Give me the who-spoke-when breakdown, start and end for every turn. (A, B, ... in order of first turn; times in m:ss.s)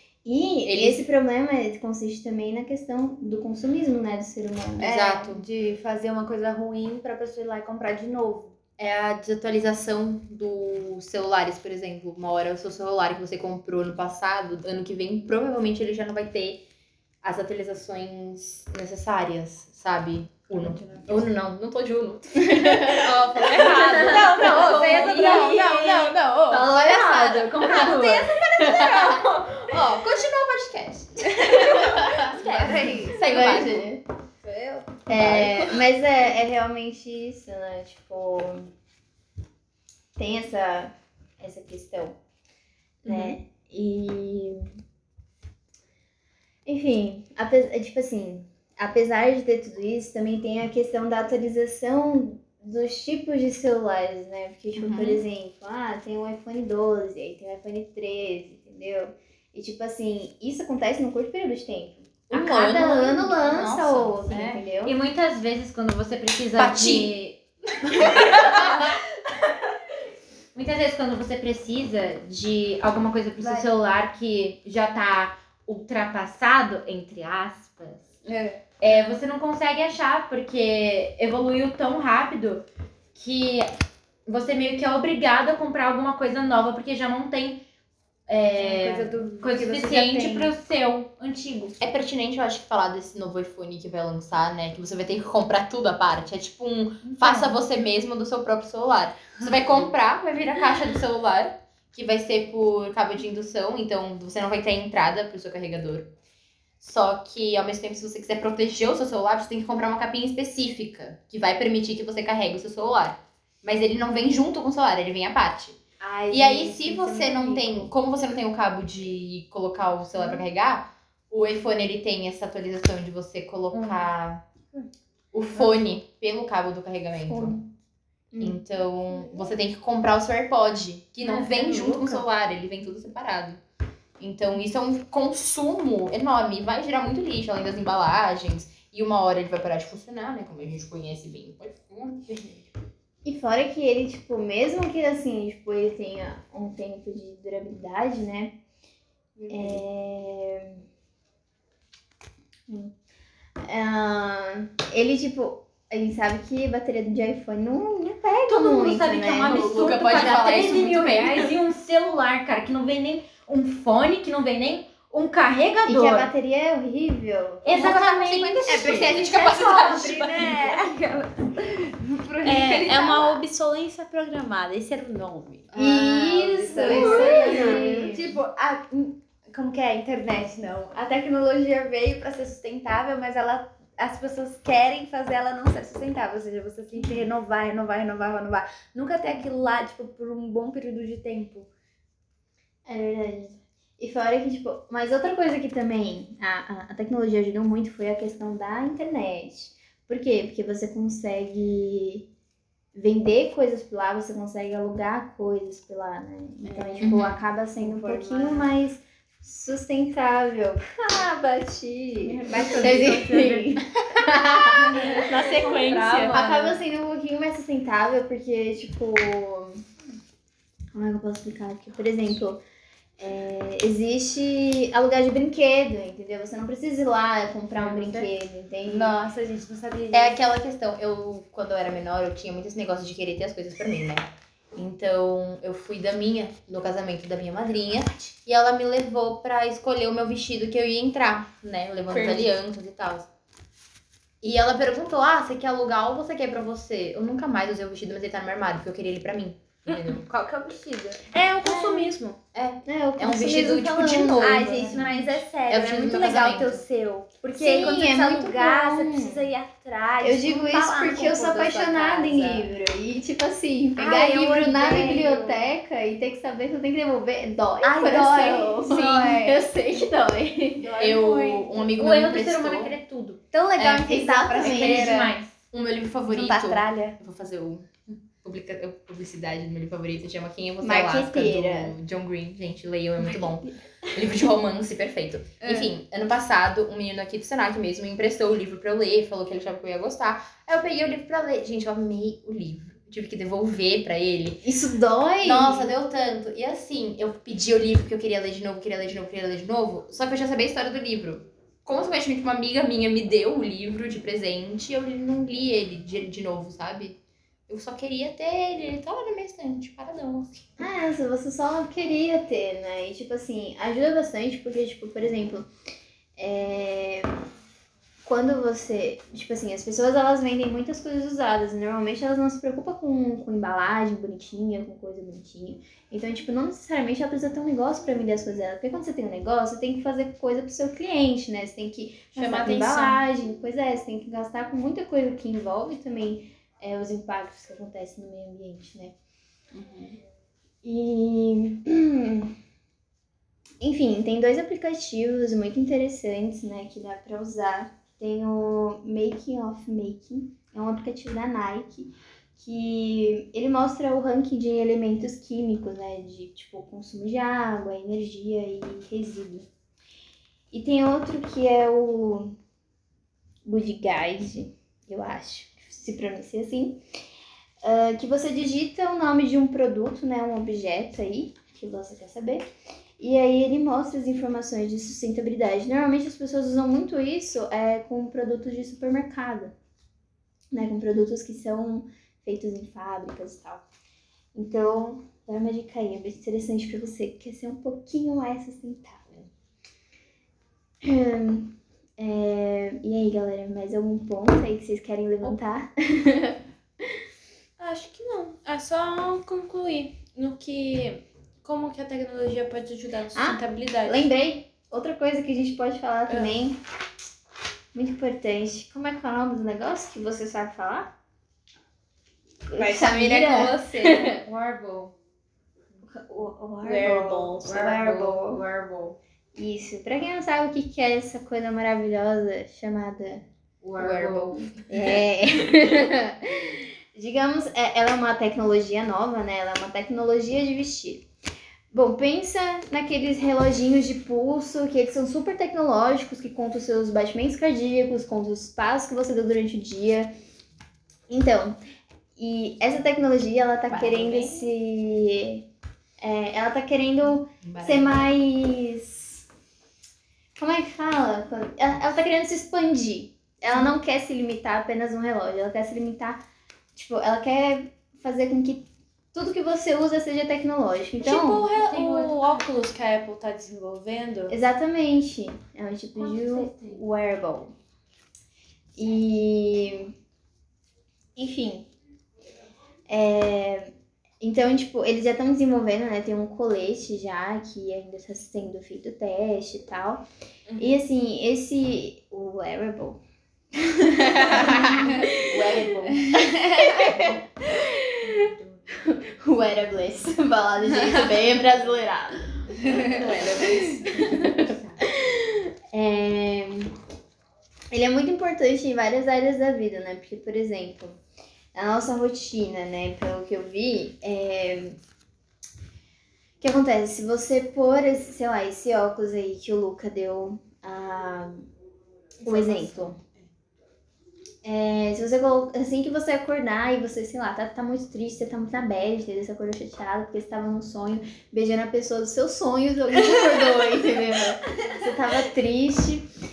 0:00.2-0:04.9 A
0:00.6-0:01.0 B
0:04.8-0:08.6 C
0:04.8-0:05.4 B
0:08.8-0:16.6 B
0:17.2-0:23.8 B
0:20.6-0:21.2 C
0:22.5-0:23.0 A
0:22.9-0:28.7 D
0:23.4-0:26.1 E
0:23.6-0:26.7 C
0:26.9-0:27.8 B
0:27.4-0:29.1 C
0:28.6-0:33.9 B
0:31.6-0:32.1 A
0:32.2-0:33.2 C
0:32.4-0:32.8 D
0:33.1-0:34.0 A
0:34.4-0:35.0 C
0:35.1-0:38.7 A
0:35.1-0:35.7 B
0:40.2-0:42.2 A
0:43.0-0:44.7 A
0:46.6-1:05.0 A
0:54.8-0:55.2 B
1:02.3-1:04.6 B
1:04.8-1:07.4 D
1:06.6-1:07.2 B
1:07.9-1:08.3 D
1:07.9-1:08.5 B
1:10.5-1:18.1 D
1:13.4-1:13.7 C
1:18.2-1:18.6 C
1:18.8-1:23.7 D
1:24.2-1:27.6 D
1:28.3-1:31.9 D
1:28.5-1:30.5 C
1:31.8-1:46.1 B
1:37.0-1:37.5 D
1:46.8-1:55.8 B
1:56.0-1:57.9 C
1:56.3-2:04.4 B
2:03.7-2:04.0 D
2:05.3-2:07.5 B
2:07.3-2:07.7 A
2:08.3-2:08.6 A
2:08.4-2:13.6 B
2:11.2-2:12.2 D
2:14.2-2:22.2 B
2:22.3-2:22.6 C
2:23.2-2:28.5 A
2:29.4-2:29.8 C
2:29.5-2:30.8 A
2:32.7-2:32.9 A
2:33.6-2:39.9 A
2:38.5-2:46.3 D
2:39.4-2:41.5 B
2:45.8-2:47.9 A
2:47.6-2:49.1 D
2:47.7-2:50.7 B
2:48.6-2:53.4 C
2:52.4-2:55.7 E
2:55.7-2:56.1 B
2:55.8-2:58.3 A
2:55.8-3:11.7 C
2:56.8-2:57.3 B
2:57.0-2:57.9 E
2:57.3-2:57.6 D
3:12.8-3:22.3 A
3:22.9-3:39.8 A
3:26.6-3:27.1 C
3:27.0-3:27.4 B
3:27.8-3:28.7 C
3:32.2-3:33.6 C
3:33.0-3:33.6 D
3:35.0-3:36.8 C
3:35.2-3:36.4 E
3:40.9-3:42.6 A
3:43.2-3:49.2 A
3:47.8-3:48.3 C
3:48.8-3:50.4 C
3:50.1-4:03.3 B
4:02.1-4:02.4 C
4:04.4-4:10.2 B
4:09.9-4:11.2 C
4:11.3-4:12.4 E
4:11.6-4:12.1 A
4:12.5-4:15.0 B
4:12.8-4:15.3 A
4:13.3-4:22.7 C
4:15.7-4:16.8 B
4:17.5-4:19.5 A
4:20.2-4:30.9 A
4:24.0-4:25.6 C
4:27.8-4:29.6 C
4:30.9-4:31.6 C
4:30.9-4:31.6 E
4:31.0-4:32.9 B
4:32.0-4:33.4 D
4:33.5-4:35.4 C
4:33.8-4:34.1 B
4:34.0-4:35.2 A
4:34.6-4:35.5 D
4:34.7-4:35.1 B
4:35.7-4:54.6 B
4:36.3-4:37.2 C
4:40.8-4:41.9 A
4:45.6-4:45.9 C
4:54.6-4:55.9 A
4:55.4-5:07.2 B
5:07.7-5:10.9 B
5:10.8-5:15.7 A
5:16.4-5:17.3 A
5:18.2-5:39.1 A
5:32.3-5:33.2 E
5:40.8-5:42.6 A
5:43.8-5:59.7 A
6:00.7-6:02.6 A
6:03.6-6:07.0 A
6:07.8-6:12.7 A
6:13.2-6:19.7 A
6:20.7-6:23.8 A
6:24.5-6:29.5 A
6:31.0-6:36.6 A
6:37.8-6:44.3 E
6:43.3-6:46.8 A
6:46.3-6:46.5 E
6:47.9-6:51.1 A
6:52.7-6:54.4 A
6:52.8-6:54.2 E
6:54.0-6:55.1 D
6:56.1-6:58.6 A
6:56.8-6:57.7 E
6:57.6-6:59.2 D
6:59.5-7:03.4 A
7:03.8-7:04.7 D
7:04.9-7:11.3 A
7:11.9-7:20.3 A
7:21.3-7:21.8 A
7:22.4-7:25.6 A
7:23.9-7:24.5 D
7:24.2-7:24.6 B
7:26.2-7:29.4 A
7:27.6-7:28.2 B
7:30.6-7:41.7 A
7:41.2-7:44.6 E
7:41.7-7:42.6 D
7:44.5-7:47.7 A
7:46.2-7:47.0 D
7:49.0-7:50.1 A
7:51.4-7:51.9 A
7:53.1-8:00.2 A
8:00.8-8:03.2 A
8:03.8-8:17.0 A
8:04.4-8:06.3 D
8:06.3-8:06.9 E
8:08.2-8:08.8 D
8:12.9-8:13.9 E
8:13.2-8:15.0 D
8:17.9-8:21.2 A
8:21.7-8:25.0 A
8:26.6-8:31.7 A
8:32.4-8:33.2 A
8:32.6-8:33.2 D
8:34.6-8:46.3 A